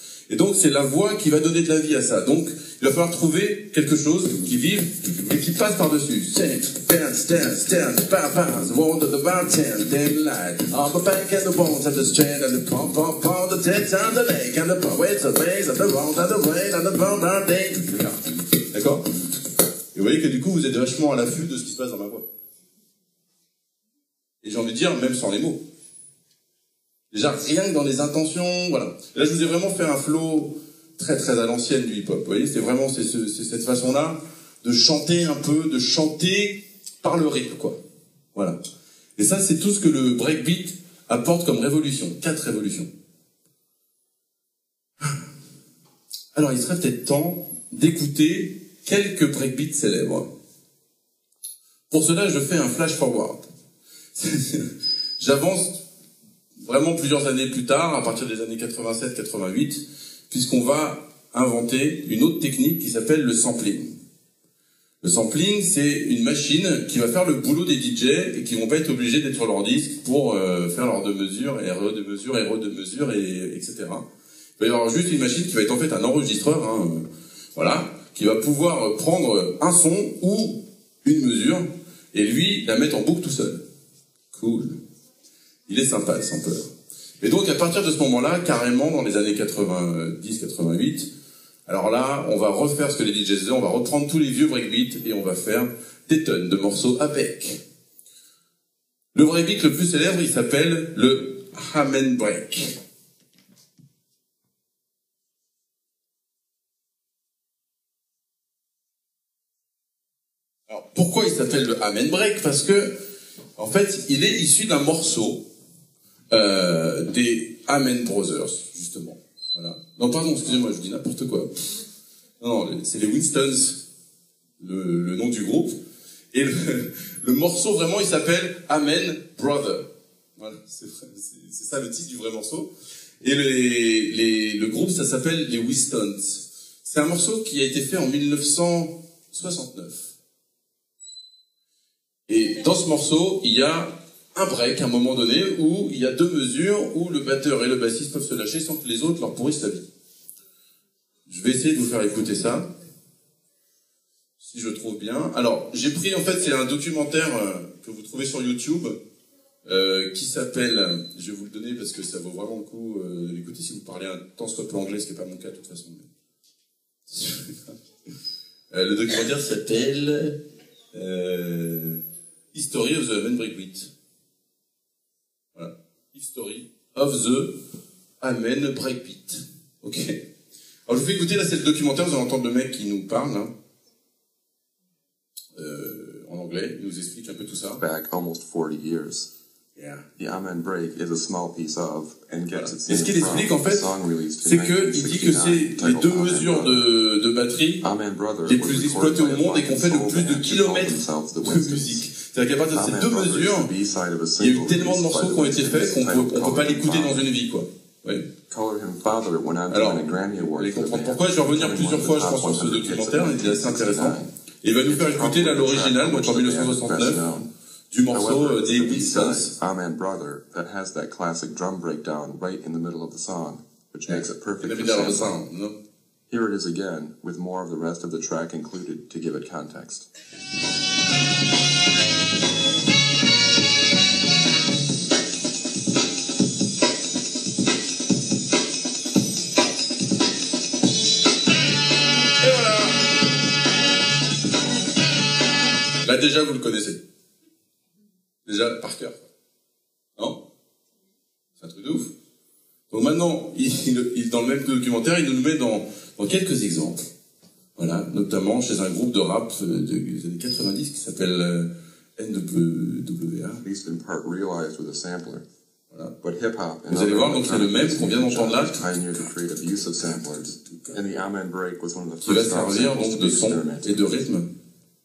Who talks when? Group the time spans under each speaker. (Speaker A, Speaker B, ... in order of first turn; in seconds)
Speaker A: 0.3-18.2, 18.7-19.1, 19.9-22.3, 24.4-25.7, 27.1-37.8, 39.2-42.9, 46.3-50.3, 51.9-53.5, 54.2-55.8, 56.6-64.0, 65.0-74.1, 74.6-83.6, 84.3-84.8, 85.7-91.1, 91.7-97.6, 99.1-102.8, 110.7-113.0, 113.6-115.5, 116.3-121.7, 122.4-123.8, 124.6-125.8, 126.3-132.7, 133.2-140.1, 142.3-149.9, 151.3-152.7, 154.4-159.0, 159.7-166.1, 167.1-167.8, 168.7-170.4, 170.9-172.0, 172.5-173.9, 175.6-177.6, 178.2-180.2, 180.9-183.5, 185.6-187.8, 189.8-190.1, 192.5-193.9, 194.4-197.9, 198.4-203.7, 204.4-208.3, 209.7-217.4, 217.9-219.5, 224.1-225.8, 242.4-243.0, 246.0-247.0, 248.5-249.3, 250.2-250.4, 251.6-252.1, 252.9-257.1, 257.8-263.6, 265.9-266.2, 266.9-271.0, 272.2-274.5
Speaker B: 187.8-189.3, 190.2-196.8, 197.8-202.0, 202.7-207.3, 208.5-214.3, 214.9-217.4, 218.1-225.4, 226.3-230.1, 263.6-265.4, 266.2-274.2